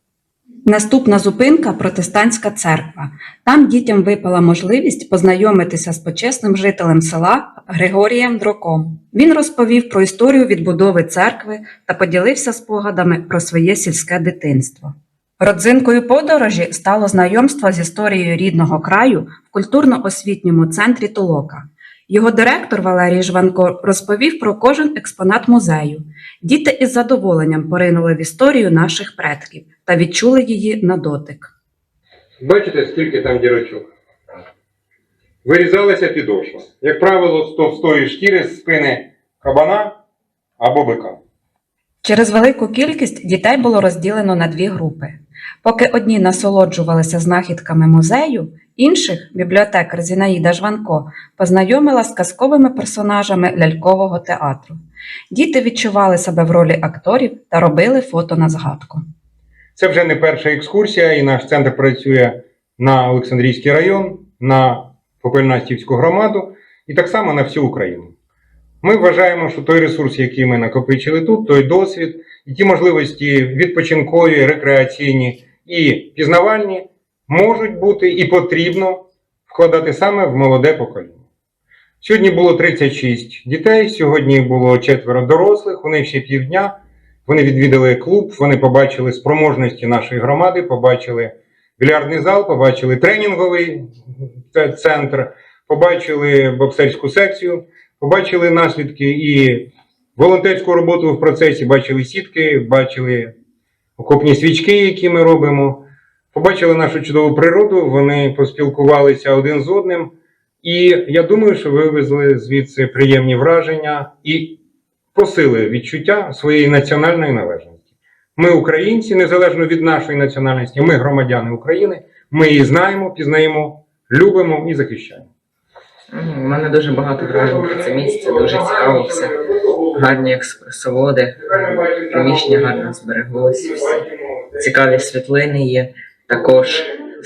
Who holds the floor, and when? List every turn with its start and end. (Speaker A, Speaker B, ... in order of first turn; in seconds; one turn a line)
Speaker A: 0.6-31.5
Speaker B: 32.4-33.9
Speaker B: 35.4-40.0
Speaker B: 40.6-41.2
Speaker A: 42.0-54.8
Speaker A: 55.3-59.0
Speaker B: 59.8-68.1
Speaker B: 68.8-81.2
Speaker B: 82.0-93.9
Speaker B: 94.5-103.3
Speaker B: 104.0-114.6
Speaker B: 115.1-117.8
Speaker B: 118.3-125.3
Speaker C: 126.1-134.0
Speaker B: 127.0-130.2
Speaker B: 131.4-135.0
Speaker C: 134.6-136.9
Speaker B: 136.5-136.8